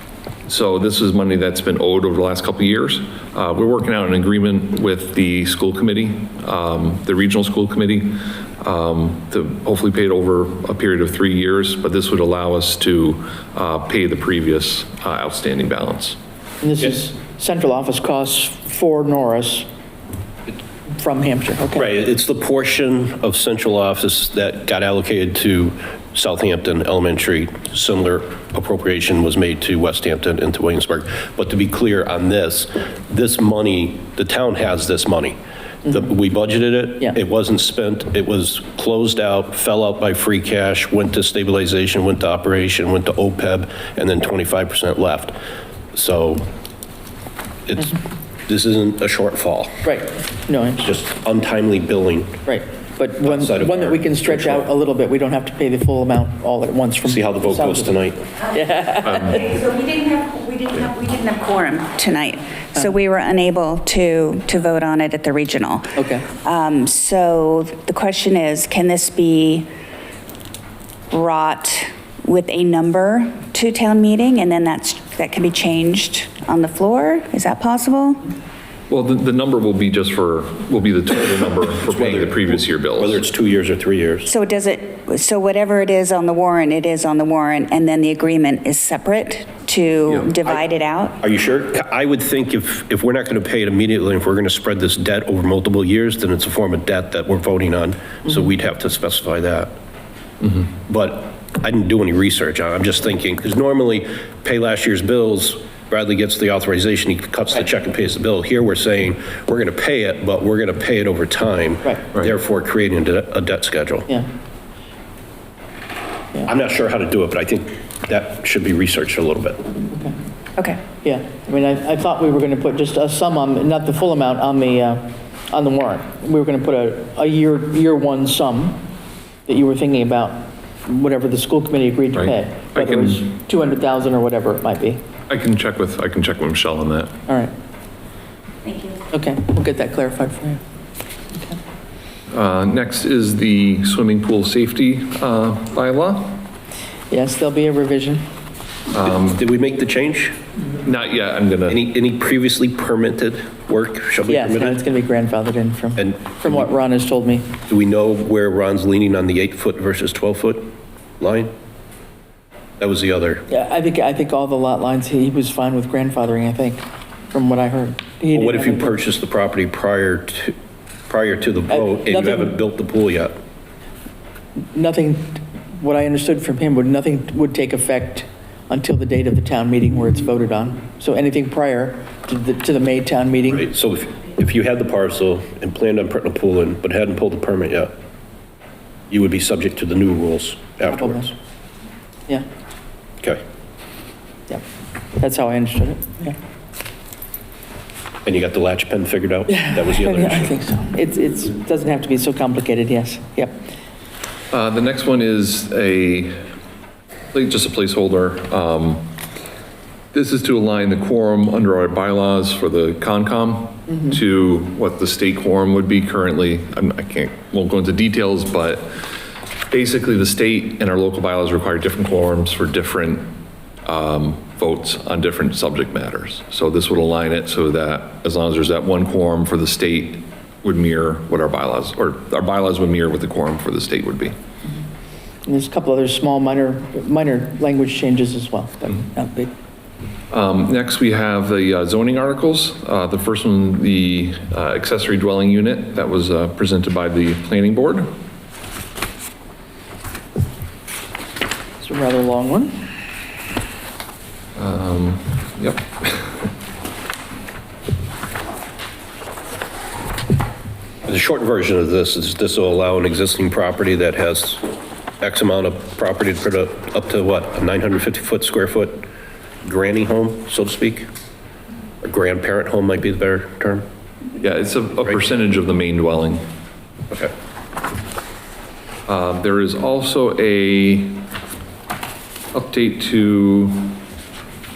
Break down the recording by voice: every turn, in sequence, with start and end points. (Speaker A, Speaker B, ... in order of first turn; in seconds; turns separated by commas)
Speaker A: 0.5-16.2, Speaker B: 16.6-19.7, Speaker B: 21.0-21.9, Speaker C: 21.8-45.4, Speaker C: 45.9-46.5, Speaker C: 47.7-48.0, Speaker C: 48.5-49.8, Speaker B: 49.8-50.9, Speaker C: 50.8-52.4, Speaker B: 52.5-57.9, Speaker C: 53.2-54.7, Speaker C: 57.0-58.3, Speaker B: 58.5-59.5, Speaker D: 59.1-69.7, Speaker B: 66.0-66.3, Speaker D: 71.1-78.2, Speaker A: 78.9-83.2, Speaker C: 81.9-84.3, Speaker D: 84.3-91.2, Speaker C: 91.2-99.7, Speaker C: 100.9-114.1, Speaker C: 116.5-119.7, Speaker B: 121.0-128.8, Speaker B: 129.5-135.0, Speaker A: 132.1-133.3, Speaker A: 135.3-137.1, Speaker D: 138.7-139.0, Speaker B: 139.1-140.6, Speaker A: 142.3-146.4, Speaker B: 147.1-148.2, Speaker A: 148.9-149.4, Speaker C: 149.2-150.4, Speaker A: 150.8-151.8, Speaker C: 151.7-154.8, Speaker B: 154.3-157.5, Speaker C: 156.0-156.6, Speaker C: 157.7-161.5, Speaker C: 162.8-163.5, Speaker B: 163.5-168.9, Speaker C: 168.3-170.6, Speaker C: 171.1-173.3, Speaker B: 171.7-172.5, Speaker B: 174.7-183.6, Speaker C: 183.5-187.9, Speaker C: 189.1-191.3, Speaker B: 191.0-191.3, Speaker B: 195.2-196.4, Speaker C: 198.2-200.6, Speaker B: 199.5-203.6, Speaker A: 204.5-206.4, Speaker A: 207.3-209.1, Speaker A: 210.1-218.9, Speaker A: 219.7-223.3, Speaker A: 223.8-234.4, Speaker B: 235.5-239.5, Speaker A: 240.3-248.1, Speaker B: 251.8-252.9, Speaker A: 254.6-256.5, Speaker C: 261.1-264.6, Speaker C: 265.2-269.1, Speaker C: 269.6-271.1, Speaker C: 272.0-273.9, Speaker A: 274.4-276.4, Speaker A: 279.1-281.2, Speaker A: 282.5-284.0